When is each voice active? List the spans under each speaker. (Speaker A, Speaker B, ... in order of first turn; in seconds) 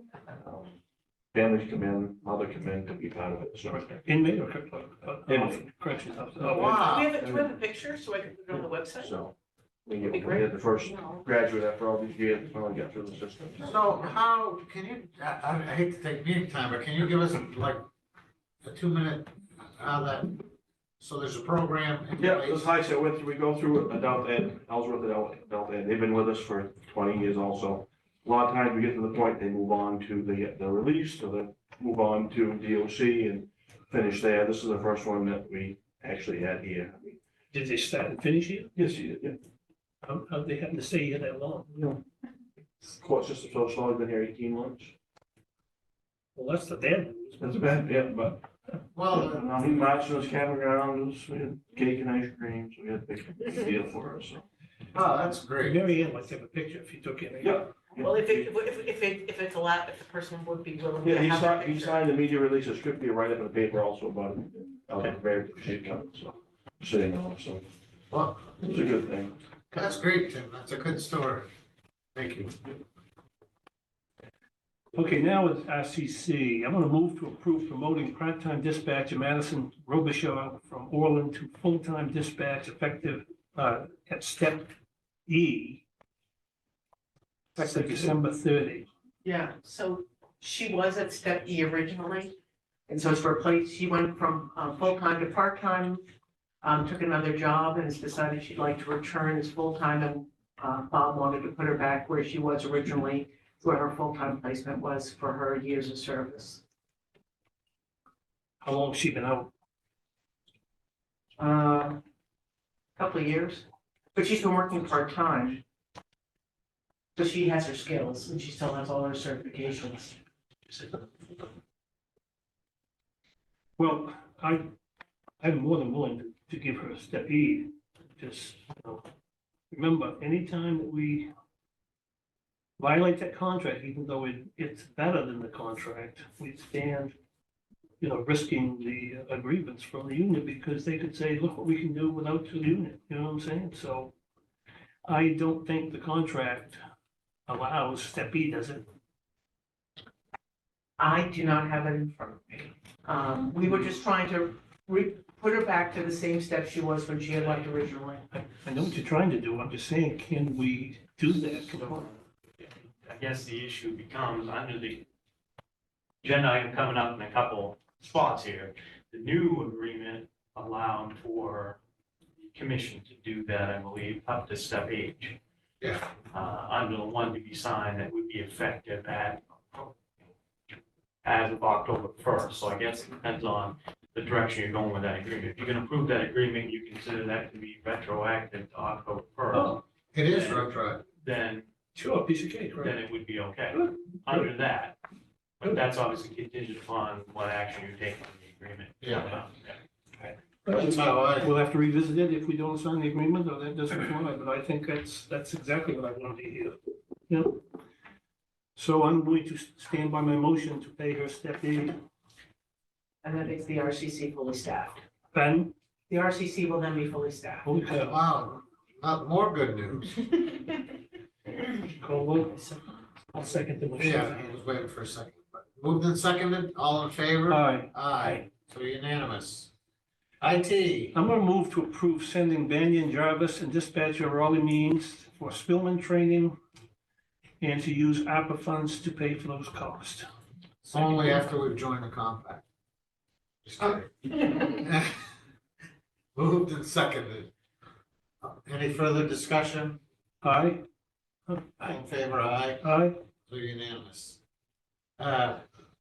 Speaker A: 0.3-0.8, 1.3-4.0, 5.3-5.6, 6.4-7.5, 8.5-13.8, 22.2-37.2, 38.8-39.4, 42.9-44.9, 47.4-48.5, 49.1-54.5, 57.4-58.5, 61.0-67.7, 68.6-69.3
Speaker B: 4.0-6.8, 37.5-38.7, 40.0-41.9, 46.4-47.5, 55.6-57.6, 74.9-84.7, 85.3-85.8, 87.6-88.9, 108.6-109.5, 123.8-124.7, 125.4-129.1, 129.7-131.3, 132.8-137.2, 138.0-144.1, 145.1-146.8, 147.5-148.9, 158.3-162.2, 189.5-189.8, 192.0-193.0, 193.7-194.5, 200.7-207.6, 208.8-212.0, 215.3-215.7, 217.6-218.2, 221.8-222.7, 223.3-224.5, 227.5-228.3, 231.1-236.6, 237.6-240.3, 250.4-250.9, 252.8-253.2
Speaker C: 6.4-9.2, 10.0-11.2, 58.0-62.0, 87.6-88.2, 89.2-92.3, 92.9-96.0, 96.6-106.6, 111.4-112.0, 113.0-115.6, 117.2-120.2, 151.0-158.2, 213.2-215.0, 216.1-217.7
Speaker D: 6.5-7.1, 13.6-17.8, 18.6-20.4, 21.0-22.6, 48.9-49.5, 54.9-55.8, 68.1-68.6, 69.7-71.5, 72.2-72.7, 175.8-176.1, 190.1-191.0, 199.0-199.3, 200.7-201.5, 218.0-220.2, 224.0-229.7, 230.4-231.2, 240.9-242.6, 243.6-245.2, 246.3-247.5, 248.4-250.0, 251.8-252.8, 253.5-254.4, 255.2-255.6
Speaker E: 162.6-165.1, 166.2-171.8, 172.5-175.4, 176.3-179.9, 181.2-190.7, 191.2-191.7, 192.8-195.0, 195.6-199.8